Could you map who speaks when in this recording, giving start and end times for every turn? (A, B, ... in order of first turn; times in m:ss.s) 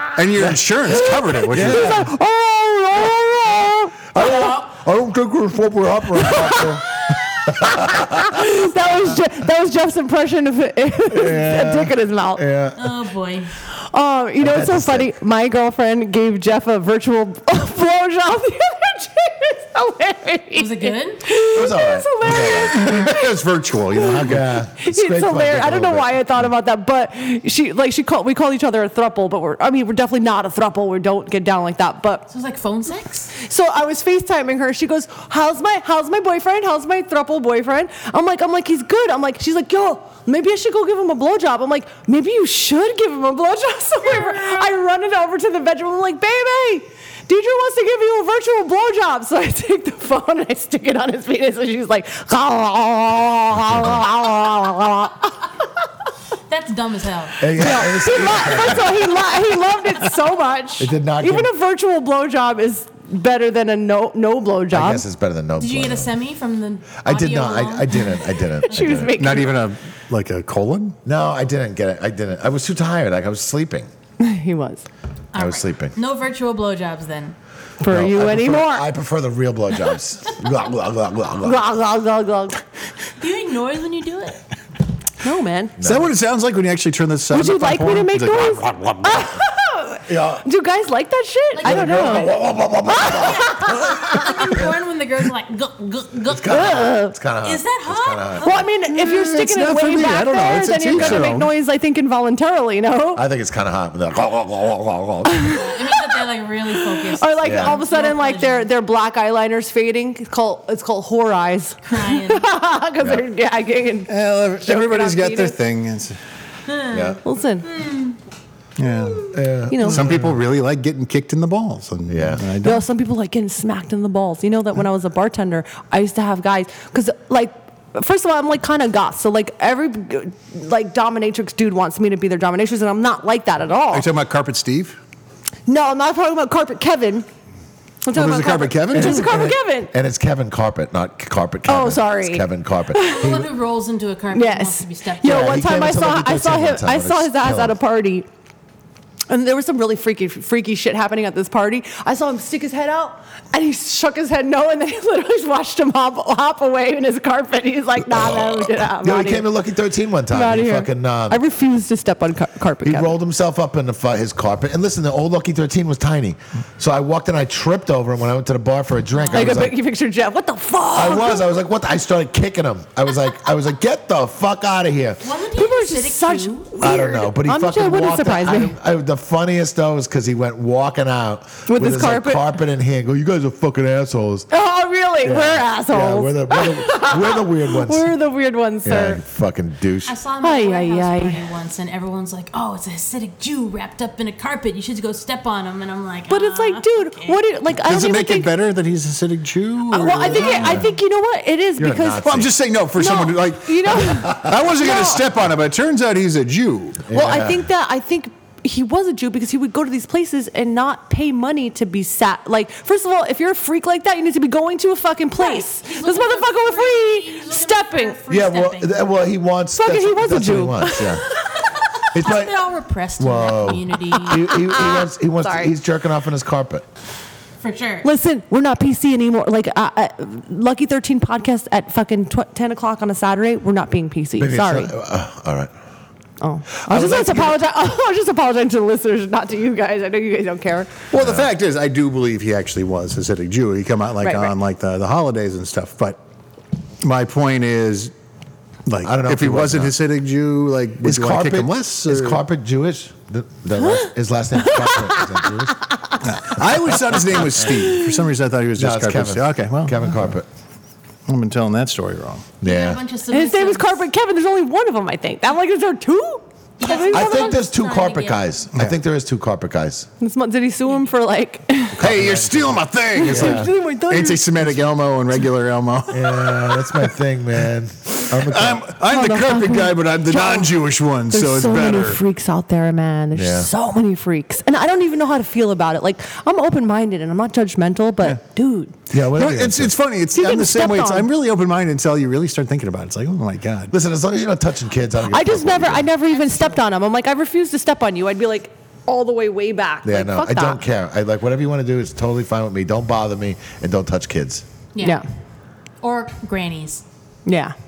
0:00.2-0:02.0 A
0:00.4-0:02.1 B
0:01.4-0:04.6 C
0:04.1-0:06.9 B
0:04.2-0:04.6 D
0:06.1-0:12.4 C
0:07.4-0:08.4 B
0:11.1-0:13.0 B
0:12.8-0:13.5 D
0:13.7-0:23.4 C
0:14.4-0:15.1 B
0:20.6-0:21.3 D
0:21.5-0:22.8 B
0:22.2-0:24.6 A
0:23.9-0:24.2 C
0:24.2-0:26.2 B
0:24.8-0:32.2 C
0:32.3-0:33.3 D
0:33.3-0:55.5 C
0:44.0-0:44.7 D
0:53.7-0:54.0 B
0:56.5-0:57.5 D
0:57.4-0:59.2 B
0:57.6-1:05.0 C
1:00.8-1:01.5 B
1:04.7-1:06.1 B
1:05.6-1:08.2 D
1:07.0-1:09.2 B
1:08.6-1:09.6 C
1:09.1-1:11.0 A
1:11.0-1:13.9 B
1:14.2-1:14.8 C
1:15.3-1:17.4 D
1:15.3-1:15.9 B
1:17.8-1:18.9 C
1:17.9-1:21.6 B
1:21.4-1:22.6 C
1:23.2-1:24.4 D
1:25.2-1:25.8 C
1:25.8-1:26.1 B
1:25.8-1:29.4 A
1:27.3-1:34.6 C
1:30.1-1:30.4 B
1:31.6-1:32.3 D
1:31.6-1:34.7 B
1:33.0-1:36.8 D
1:36.3-1:38.6 B
1:36.5-1:37.1 C
1:37.4-1:38.7 D
1:38.4-1:43.2 C
1:38.9-1:41.5 A
1:40.9-1:41.4 B
1:43.1-1:45.6 B
1:45.2-1:45.8 C
1:45.5-1:48.7 D
1:46.7-1:55.6 C
1:47.4-1:47.8 B
1:51.9-1:52.5 D
1:53.0-1:53.2 B
1:54.1-1:56.2 A
1:56.7-1:58.2 D
1:56.9-1:57.2 B
1:57.2-1:57.7 C
1:58.8-2:02.8 A
1:59.3-2:00.4 B
1:59.7-2:00.1 C
2:02.1-2:02.4 B
2:02.6-2:14.1 C
2:13.9-2:15.0 A
2:15.7-2:17.2 C
2:18.0-2:19.9 C
2:18.1-2:19.3 A
2:18.9-2:23.5 B
2:21.6-2:23.4 C
2:23.0-2:25.6 D
2:24.3-2:28.3 C
2:25.2-2:27.8 B
2:29.3-2:39.5 C
2:38.0-2:41.4 B
2:40.3-2:43.1 C
2:42.8-2:49.8 B
2:49.1-2:49.6 D
2:49.3-2:51.4 C
2:50.9-2:55.2 B
2:55.2-2:56.7 D
2:55.5-2:58.7 C
2:56.8-3:04.5 B
3:01.7-3:02.4 C
3:04.5-3:09.2 C
3:05.2-3:08.1 B
3:08.8-3:10.2 B
3:10.0-3:17.4 D
3:10.4-3:11.5 C
3:16.3-3:18.5 C
3:17.7-3:20.8 A
3:19.9-3:22.3 C
3:20.5-3:20.9 B
3:21.8-3:22.5 B
3:22.2-3:27.0 A
3:23.0-3:25.2 C
3:24.3-3:24.5 B
3:27.0-3:27.6 B
3:27.1-3:38.2 C
3:35.4-3:39.1 D
3:38.3-3:41.2 B
3:39.8-3:41.5 C
3:41.9-3:44.6 D
3:42.1-3:42.6 B
3:43.2-3:46.8 B
3:44.1-3:45.7 C
3:47.6-3:48.1 D
3:48.0-3:54.9 C
3:54.4-3:55.7 B
3:56.4-4:00.9 C
3:56.8-3:57.6 B
4:01.1-4:06.2 A
4:01.1-4:01.5 B
4:04.2-4:04.5 C
4:07.0-4:08.1 A
4:08.9-4:12.4 A
4:09.0-4:09.9 B
4:11.0-4:15.8 B
4:13.8-4:16.2 C
4:16.2-4:20.3 A
4:17.3-4:17.6 B
4:17.6-4:18.2 C
4:18.8-4:20.4 B
4:21.3-4:22.5 A
4:22.6-4:23.0 B
4:22.6-4:24.0 D
4:23.3-4:27.6 C
4:26.8-4:28.4 D
4:27.1-4:30.1 B
4:30.2-4:32.0 C
4:31.9-4:33.7 B
4:32.0-4:37.1 A
4:33.1-4:34.5 C
4:36.1-4:38.9 B
4:38.3-4:42.2 A
4:39.0-4:49.0 C
4:43.3-4:43.7 B
4:49.1-4:49.9 B
4:49.1-4:53.9 A
4:50.3-4:51.3 C
4:53.9-4:56.1 B
4:55.3-5:00.8 C
4:56.3-4:56.8 D
5:00.0-5:04.6 B
5:04.9-5:05.2 D
5:06.0-5:07.0 D
5:07.4-5:07.7 C